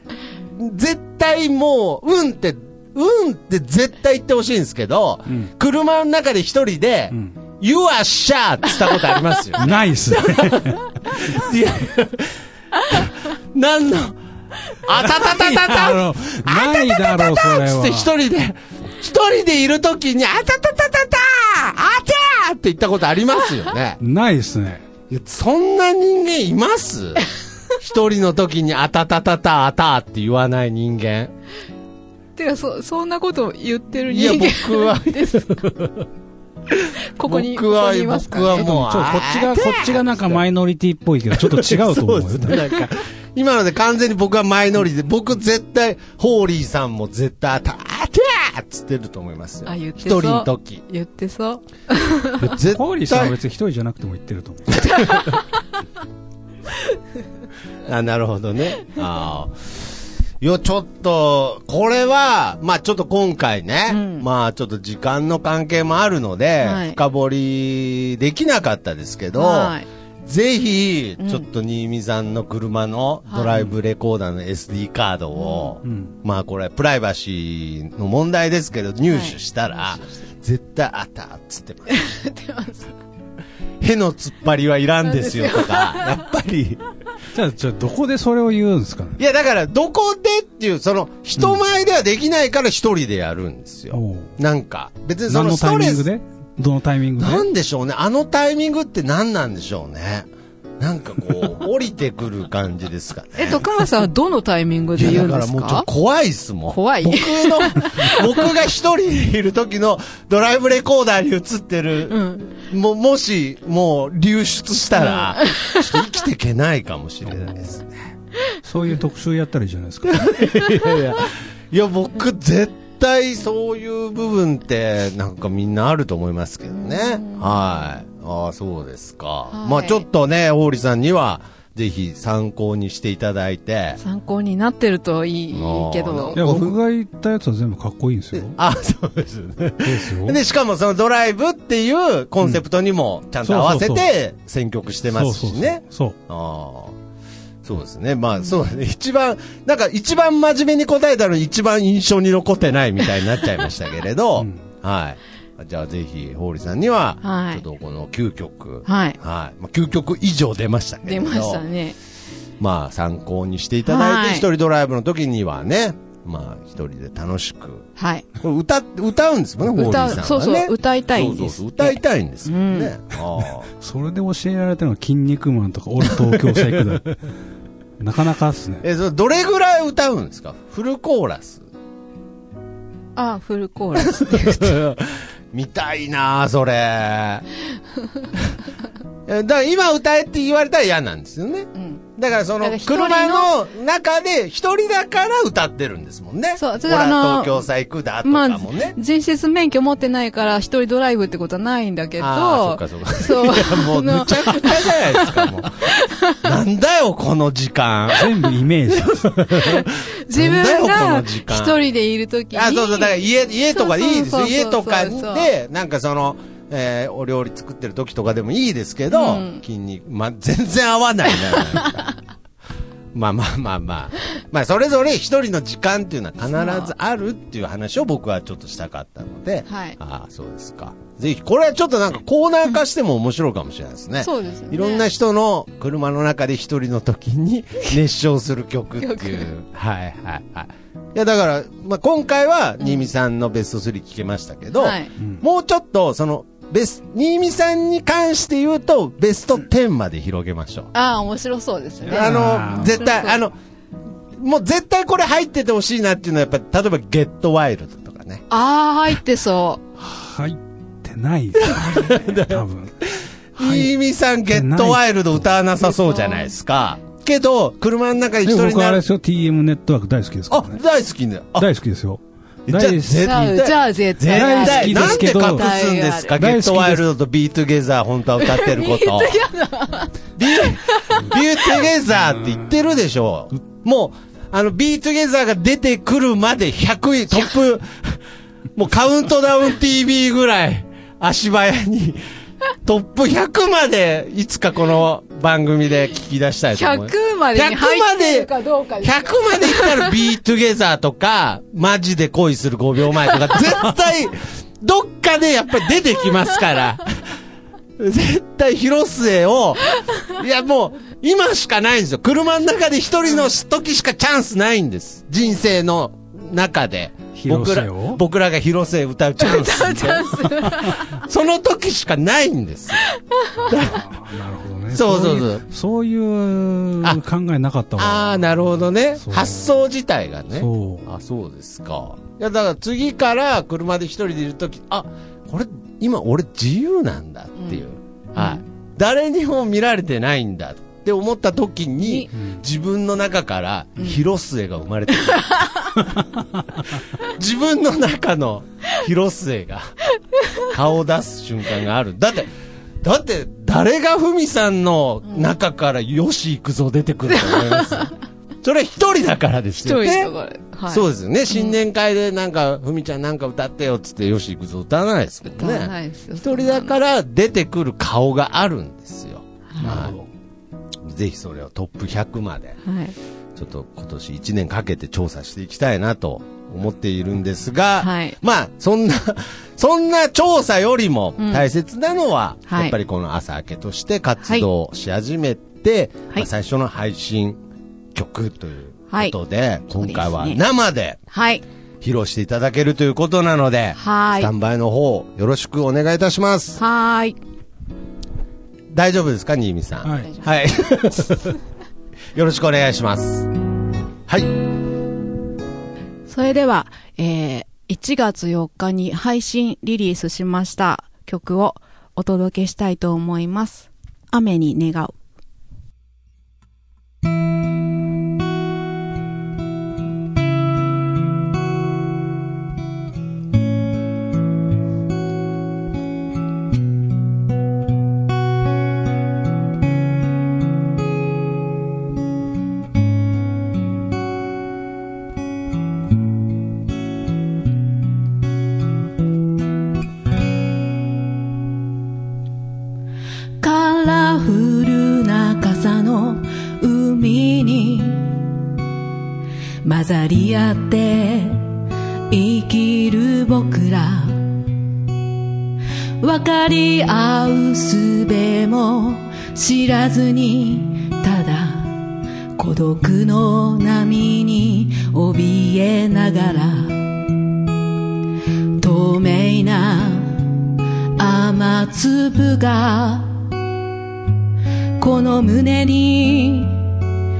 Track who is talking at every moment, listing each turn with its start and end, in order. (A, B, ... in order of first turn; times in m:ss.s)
0:00.4-0:14.2 A
0:09.6-0:10.9 B
0:14.7-0:24.0 A
0:14.9-0:18.1 B
0:24.0-0:24.9 B
0:25.1-0:27.3 A
0:27.8-0:31.3 A
0:32.4-0:35.5 C
0:34.1-0:36.0 A
0:36.7-0:40.4 A
0:37.2-0:38.5 C
0:38.5-0:42.7 B
0:41.3-0:50.8 A
0:49.7-0:52.4 C
0:52.4-0:53.3 A
0:52.5-0:55.1 B
0:54.7-0:55.4 A
0:57.8-0:59.7 A
1:00.4-1:22.0 A
1:03.9-1:04.2 C
1:06.6-1:07.0 C
1:09.4-1:09.8 C
1:15.4-1:15.7 C
1:15.8-1:16.1 B
1:21.9-1:22.9 C
1:23.8-1:26.8 A
1:25.2-1:25.9 C
1:27.3-1:29.2 B
1:29.2-1:36.0 A
1:33.9-1:34.3 B
1:35.3-1:37.4 B
1:37.2-1:40.3 A
1:40.8-1:43.6 A
1:43.4-1:45.9 C
1:44.9-1:58.1 A
1:46.7-1:48.2 C
1:52.1-1:52.5 C
1:55.1-1:55.8 C
1:58.6-2:00.6 B
2:00.1-2:14.0 A
2:07.0-2:07.6 C
2:09.5-2:10.0 C
2:14.0-2:16.4 C
2:15.5-2:16.8 A
2:16.4-2:18.6 B
2:18.3-2:27.0 A
2:19.8-2:20.4 B
2:23.4-2:24.1 B
2:25.1-2:26.2 B
2:27.6-2:41.6 A
2:37.2-2:37.6 C
2:38.9-2:39.2 C
2:41.0-2:41.9 C
2:42.6-2:47.9 A
2:43.8-2:44.4 C
2:48.0-2:48.2 C
2:48.4-2:53.7 A
2:49.7-2:52.9 C
2:53.8-2:57.2 B
2:56.1-2:56.9 A
2:58.0-2:58.8 B
2:58.8-3:01.6 A
3:03.2-3:04.8 C
3:04.0-3:07.4 A
3:09.3-3:19.0 A
3:11.7-3:12.0 C
3:12.6-3:13.5 C
3:16.6-3:17.6 C
3:18.2-3:26.4 C
3:22.2-3:25.8 A
3:26.4-3:28.4 A
3:28.1-3:29.5 B
3:28.9-3:31.8 A
3:29.8-3:33.1 C
3:32.5-3:42.1 A
3:33.7-3:35.5 C
3:39.1-3:39.6 C
3:43.1-4:10.9 A
3:46.6-3:46.9 C
3:49.7-3:50.0 C
3:54.2-3:55.1 C
3:59.0-3:59.5 C
4:04.8-4:05.1 C
4:10.9-4:13.4 C
4:12.0-4:13.5 A
4:12.0-4:13.0 B
4:14.4-4:18.4 A
4:18.5-4:19.8 C
4:20.0-4:23.0 B
4:21.6-4:29.0 A
4:23.6-4:23.9 B
4:24.5-4:25.2 B
4:25.8-4:26.5 C
4:28.4-4:30.8 B
4:30.5-4:31.7 A
4:31.6-4:33.6 B
4:32.7-4:39.4 A
4:33.2-4:36.4 C
4:34.2-4:35.7 B
4:36.3-4:37.0 B
4:38.4-4:41.4 C
4:40.4-4:48.2 A
4:42.2-4:42.6 B
4:48.8-4:52.2 A
4:52.8-5:07.2 A
4:56.7-5:00.1 C
5:08.0-5:23.1 A
5:17.3-5:18.2 B
5:19.4-5:21.1 C
5:20.6-5:20.9 B
5:23.0-5:23.8 C
5:23.6-5:24.0 A
5:23.6-5:29.7 B
5:24.9-5:25.6 A
5:28.0-5:45.7 A
5:30.6-5:31.1 B
5:37.6-5:37.8 C
5:38.3-5:38.6 C
5:42.0-5:42.3 C
5:45.4-5:45.9 C
5:46.2-5:46.6 B
5:47.2-5:50.0 A
5:50.6-5:52.5 A
5:53.0-6:00.3 A
5:57.3-5:58.1 C
5:59.8-6:01.8 C
6:00.9-6:10.1 A
6:05.5-6:07.0 C
6:09.7-6:10.0 C
6:09.8-6:10.3 B
6:11.0-6:12.8 A
6:12.8-6:13.1 C
6:13.5-6:27.6 A
6:18.0-6:18.4 C
6:21.4-6:21.7 C
6:22.7-6:22.9 C
6:24.4-6:24.7 C
6:28.1-6:31.2 A
6:29.1-6:29.4 C
6:29.9-6:30.6 C
6:31.3-6:31.6 C
6:32.0-6:36.8 A
6:34.0-6:34.5 C
6:36.8-6:37.4 C
6:38.9-6:41.5 A
6:40.0-6:40.3 B
6:42.3-6:43.5 A
6:46.3-6:55.1 C
7:23.6-7:28.4 C
7:29.8-7:31.7 C
7:32.3-7:34.4 C
7:36.2-7:42.0 C
7:42.6-7:47.2 C
7:48.8-7:50.5 C
7:51.2-7:53.3 C
7:55.0-7:56.9 C